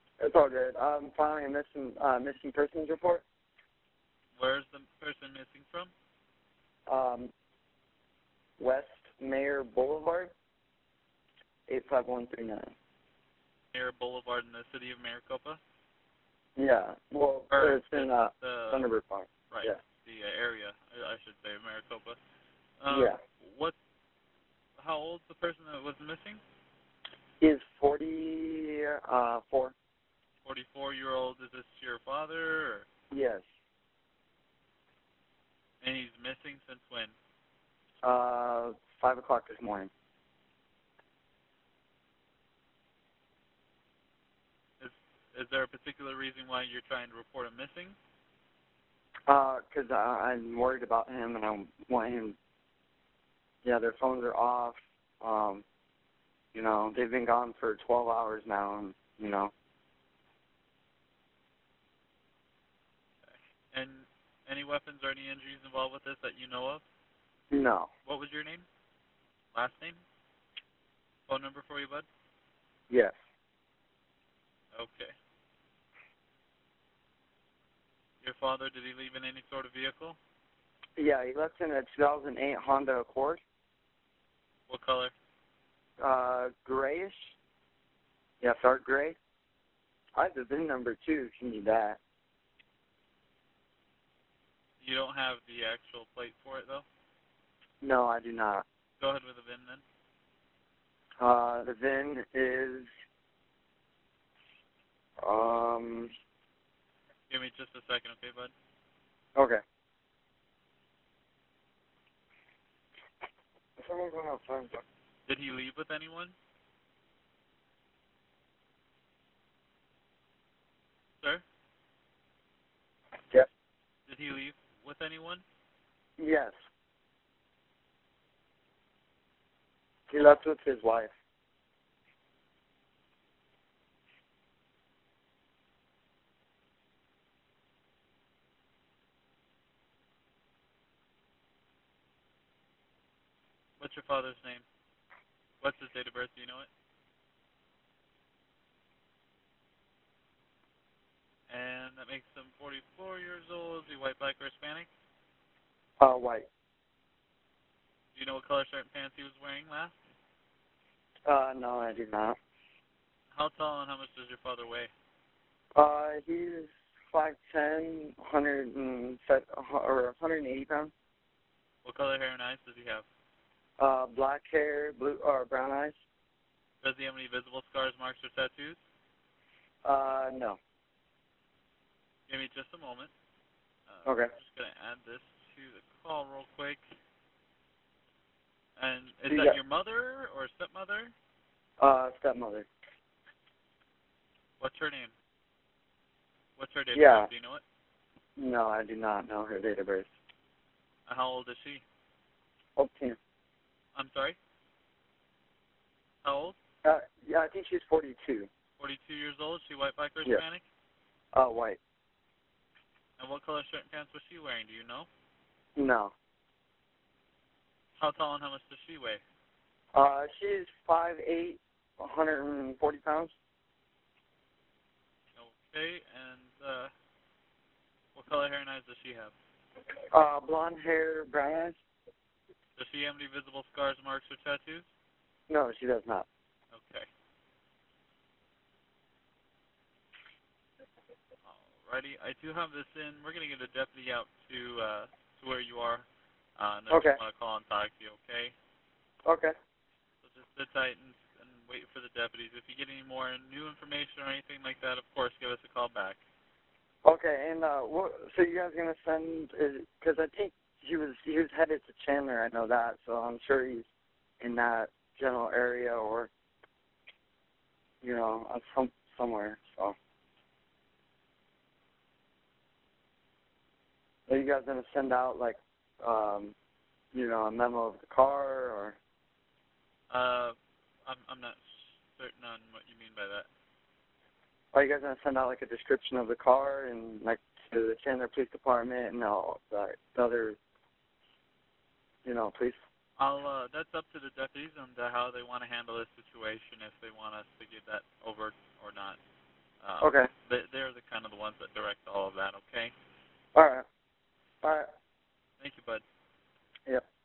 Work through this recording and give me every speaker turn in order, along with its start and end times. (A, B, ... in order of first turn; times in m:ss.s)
0:00.2-0:03.2 A
0:04.4-0:05.9 B
0:06.9-0:07.3 A
0:08.6-0:10.3 A
0:11.7-0:12.7 A
0:13.7-0:15.6 B
0:16.6-0:19.8 A
0:17.5-0:18.8 B
0:19.5-0:22.2 B
0:22.8-0:23.7 B
0:22.9-0:23.2 A
0:24.8-0:26.4 B
0:27.4-0:29.7 A
0:30.4-0:32.8 B
0:33.1-0:33.4 A
0:35.8-0:37.1 B
0:38.0-0:39.9 A
0:44.8-0:48.0 B
0:49.3-0:52.4 A
0:53.6-0:55.6 A
0:56.5-0:59.5 A
1:03.7-1:06.8 B
1:07.5-1:07.9 A
1:08.0-1:08.7 B
1:09.5-1:10.0 B
1:11.3-1:12.0 B
1:12.9-1:13.1 A
1:14.7-1:15.1 B
1:18.2-1:20.2 B
1:21.0-1:23.4 A
1:24.7-1:25.1 B
1:26.0-1:27.4 A
1:28.4-1:29.2 A
1:30.2-1:32.0 A
1:34.8-1:36.8 B
1:37.8-1:38.6 A
1:39.0-1:39.8 B
1:41.2-1:42.9 A
1:45.2-1:46.1 A
1:47.3-1:48.5 B
1:49.4-1:49.6 A
1:53.8-1:54.8 A
1:55.3-1:56.4 B
2:04.1-2:05.4 B
2:06.2-2:06.5 A
2:10.1-2:11.1 A
2:23.8-2:24.6 B
2:25.6-2:26.7 B
2:31.5-2:34.9 B
2:36.0-2:36.5 A
2:38.1-2:40.0 B
2:41.2-2:42.4 A
2:43.3-2:44.9 B
2:45.7-2:50.9 A
2:51.8-2:53.0 B
2:53.8-2:56.0 A
2:56.8-2:58.8 B
2:59.8-3:00.6 A
3:02.3-3:03.1 B
3:03.9-3:06.8 B
3:04.0-3:04.3 A
3:08.8-3:11.1 B
3:09.3-3:09.6 A
3:11.8-3:12.7 A
3:14.6-3:15.1 B
3:16.6-3:17.6 B
3:16.9-3:17.3 A
3:18.4-3:20.1 A
3:21.0-3:21.8 B
3:22.8-3:23.2 A
3:23.9-3:24.4 B
3:26.2-3:26.6 B
3:26.8-3:28.5 A
3:28.8-3:30.6 B
3:31.3-3:31.8 A
3:33.2-3:35.1 B
3:35.8-3:36.1 A
3:38.0-3:39.2 B
3:39.9-3:43.3 A
3:45.4-3:46.9 B
3:48.1-3:49.3 B
3:50.1-3:51.8 A
3:52.8-3:54.9 B
3:55.5-3:56.3 A
3:56.7-3:57.1 B
4:01.4-4:06.0 B
4:06.6-4:08.5 B
4:06.9-4:07.2 A
4:09.2-4:09.5 A
4:10.2-4:16.2 B
4:17.0-4:23.9 A
4:24.4-4:26.3 A
4:28.0-4:30.0 A
4:34.3-4:36.5 A
4:37.1-4:39.0 A
4:40.1-4:43.5 B
4:44.7-4:50.6 A
4:52.2-4:52.8 A
4:53.2-4:59.2 B
4:59.8-5:02.9 B
5:00.0-5:00.3 A
5:03.5-5:03.8 A
5:04.6-5:04.9 A
5:05.6-5:06.0 B